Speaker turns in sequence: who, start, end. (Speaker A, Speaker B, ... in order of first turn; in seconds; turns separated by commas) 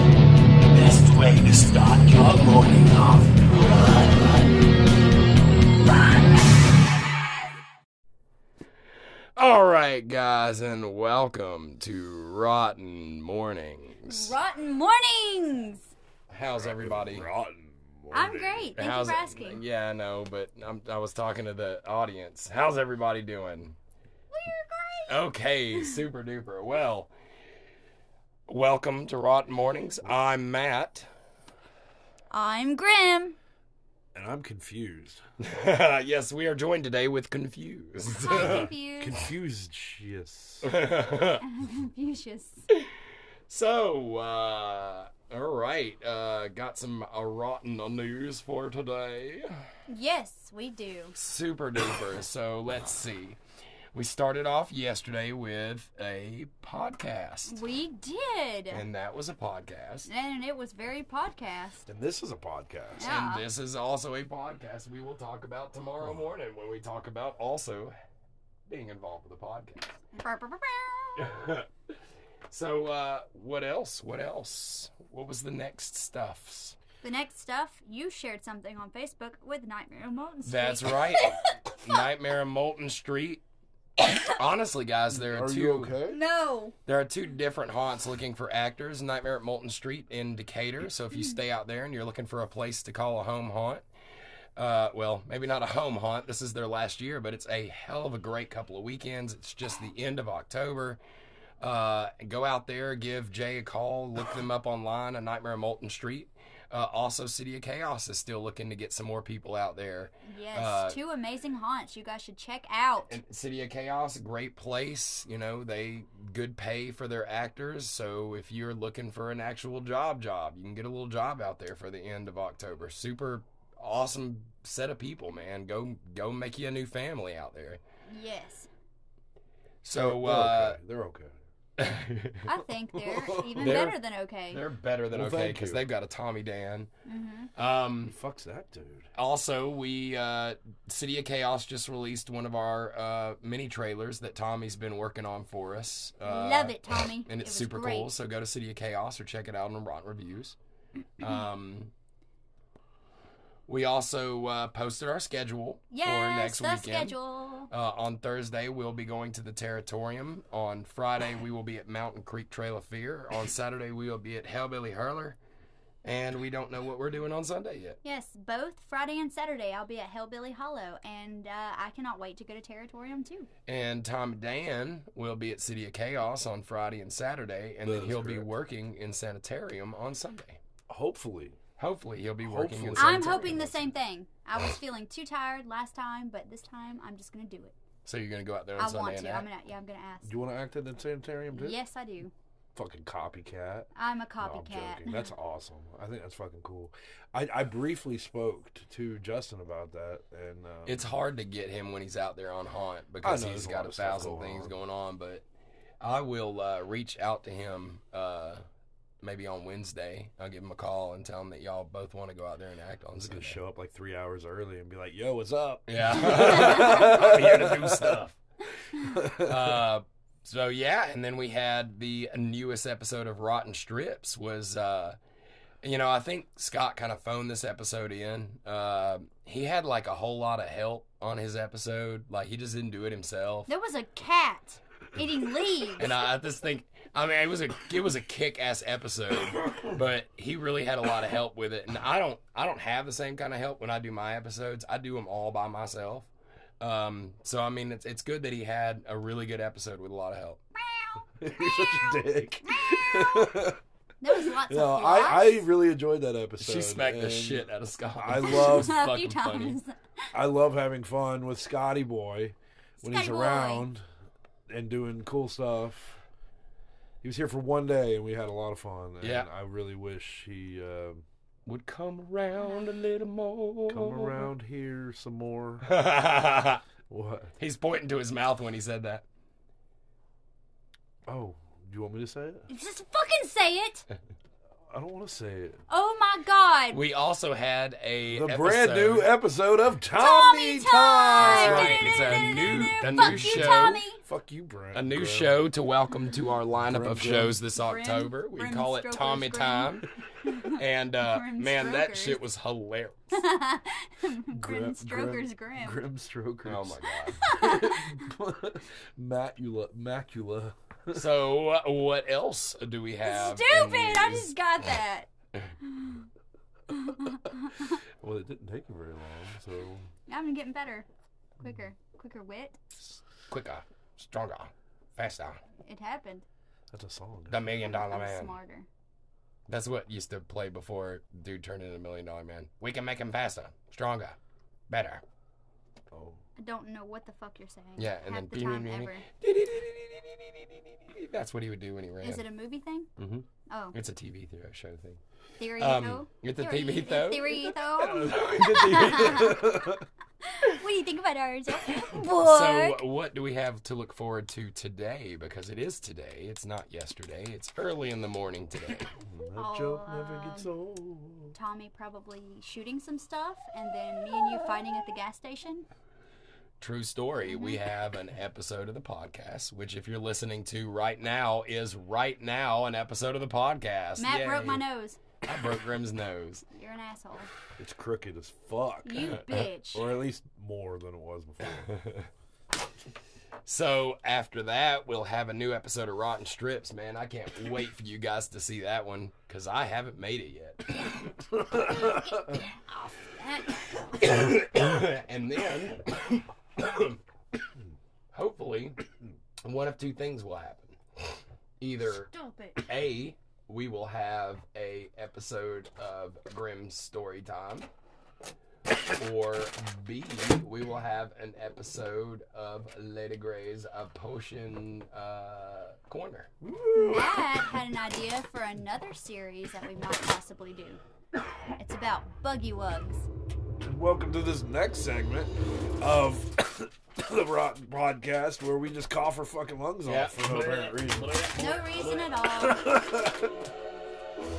Speaker A: 0.7-4.5, Speaker B: 9.4-14.4, Speaker C: 14.1-15.9, Speaker B: 16.3-17.3, Speaker D: 16.6-18.7, Speaker C: 18.1-19.6, Speaker B: 18.8-23.8, Speaker C: 24.3-25.2, Speaker B: 25.1-27.1, Speaker B: 28.5-31.1, Speaker C: 32.3-33.4, Speaker D: 34.1-35.2, Speaker B: 35.4-38.7, Speaker C: 38.1-39.2, Speaker D: 38.3-40.7, Speaker B: 40.6-41.5, Speaker C: 41.4-42.7, Speaker B: 43.5-49.7, Speaker C: 49.9-51.2, Speaker B: 51.1-53.4, Speaker B: 53.9-57.6, Speaker C: 57.5-58.9, Speaker B: 58.7-60.1, Speaker C: 60.1-61.9, Speaker D: 61.9-63.1, Speaker C: 63.0-63.5, Speaker B: 63.0-67.9, Speaker B: 68.7-69.9, Speaker C: 70.2-71.3, Speaker B: 71.2-71.7, Speaker B: 72.5-76.8, Speaker C: 77.0-81.4, Speaker B: 80.5-83.4, Speaker B: 84.1-86.0, Speaker D: 85.1-86.2, Speaker C: 86.1-86.8, Speaker B: 86.9-93.8, Speaker B: 94.6-101.0, Speaker B: 101.6-111.0, Speaker C: 110.2-113.2, Speaker B: 113.1-127.8, Speaker C: 128.1-128.7, Speaker B: 129.8-130.8, Speaker D: 129.9-131.4, Speaker B: 131.8-132.5, Speaker C: 132.4-134.6, Speaker D: 132.9-133.8, Speaker B: 133.6-134.0, Speaker B: 134.5-136.9, Speaker D: 135.1-135.8, Speaker C: 137.1-137.5, Speaker B: 137.6-138.2, Speaker D: 138.1-139.1, Speaker B: 139.1-150.6, Speaker C: 146.2-148.1, Speaker B: 151.2-151.9, Speaker B: 153.7-157.2, Speaker C: 155.9-157.7, Speaker B: 157.7-165.4, Speaker B: 166.0-168.0, Speaker C: 168.0-173.5, Speaker B: 173.7-180.6, Speaker D: 177.9-178.5, Speaker D: 180.9-181.6, Speaker B: 181.8-183.8, Speaker D: 182.4-183.8, Speaker C: 183.0-187.8, Speaker B: 188.1-189.5, Speaker C: 188.8-190.3, Speaker D: 190.2-191.8, Speaker C: 191.5-192.3, Speaker D: 192.8-201.1, Speaker C: 193.9-195.3, Speaker B: 200.8-205.4, Speaker D: 203.2-204.7, Speaker B: 206.0-208.6, Speaker B: 209.2-213.6, Speaker D: 213.2-218.2, Speaker B: 215.9-218.4, Speaker C: 216.7-217.1, Speaker D: 218.9-219.8, Speaker B: 219.4-225.2, Speaker B: 225.8-233.7, Speaker C: 233.7-236.2, Speaker B: 236.0-246.3, Speaker B: 246.8-250.6, Speaker C: 250.8-252.2, Speaker D: 251.4-253.8, Speaker C: 252.7-253.5, Speaker C: 254.2-255.7, Speaker D: 254.6-257.7, Speaker B: 256.6-259.8, Speaker D: 258.2-259.0, Speaker C: 258.4-260.3, Speaker D: 260.3-264.1, Speaker C: 263.0-263.9, Speaker D: 264.7-266.2, Speaker D: 267.2-271.2, Speaker B: 269.2-269.5, Speaker B: 271.7-274.5, Speaker C: 272.6-272.8, Speaker D: 273.9-275.9, Speaker B: 275.8-276.8, Speaker D: 277.1-277.5, Speaker B: 277.6-279.2, Speaker D: 281.3-282.7, Speaker C: 282.7-284.1, Speaker D: 284.9-285.8, Speaker C: 285.9-287.0, Speaker B: 286.9-289.3, Speaker D: 288.3-292.3, Speaker C: 290.1-294.2, Speaker B: 291.4-294.0, Speaker D: 292.9-295.5, Speaker B: 294.9-300.1, Speaker D: 296.9-297.6, Speaker C: 297.8-302.4, Speaker B: 300.6-303.4, Speaker C: 303.3-306.0, Speaker D: 304.5-311.3, Speaker B: 306.6-307.5, Speaker C: 307.4-308.2, Speaker B: 311.1-314.6, Speaker C: 313.2-315.3, Speaker C: 315.8-316.3, Speaker C: 316.9-318.0, Speaker D: 318.2-320.1, Speaker C: 320.3-321.1, Speaker C: 321.6-322.8, Speaker B: 323.5-325.6, Speaker C: 325.8-326.4, Speaker D: 326.9-327.7, Speaker B: 327.5-328.6, Speaker C: 327.9-328.9, Speaker B: 329.7-334.4, Speaker B: 334.9-335.2, Speaker D: 336.1-336.4, Speaker C: 336.6-339.2, Speaker B: 338.0-342.4, Speaker C: 342.2-343.1, Speaker B: 343.2-345.2, Speaker C: 343.7-344.0, Speaker C: 345.6-349.7, Speaker B: 345.8-349.8, Speaker D: 348.3-350.1, Speaker C: 350.4-353.0, Speaker B: 352.1-359.1, Speaker D: 359.2-361.6, Speaker C: 359.6-360.7, Speaker C: 361.5-365.9, Speaker B: 366.8-374.9, Speaker C: 367.5-367.8, Speaker C: 374.2-375.2, Speaker B: 375.4-376.6, Speaker C: 376.7-377.5, Speaker D: 377.8-382.1, Speaker C: 379.0-380.1, Speaker B: 383.7-391.2, Speaker C: 391.9-393.8, Speaker B: 394.1-397.2, Speaker B: 398.3-399.0, Speaker B: 399.6-401.0, Speaker B: 401.8-402.3, Speaker C: 402.2-402.9, Speaker B: 402.8-407.9, Speaker B: 409.1-416.5, Speaker D: 416.6-417.5, Speaker C: 416.9-421.0, Speaker C: 421.8-423.3, Speaker D: 423.8-431.4, Speaker B: 430.0-432.3, Speaker C: 431.6-433.0, Speaker D: 432.6-433.4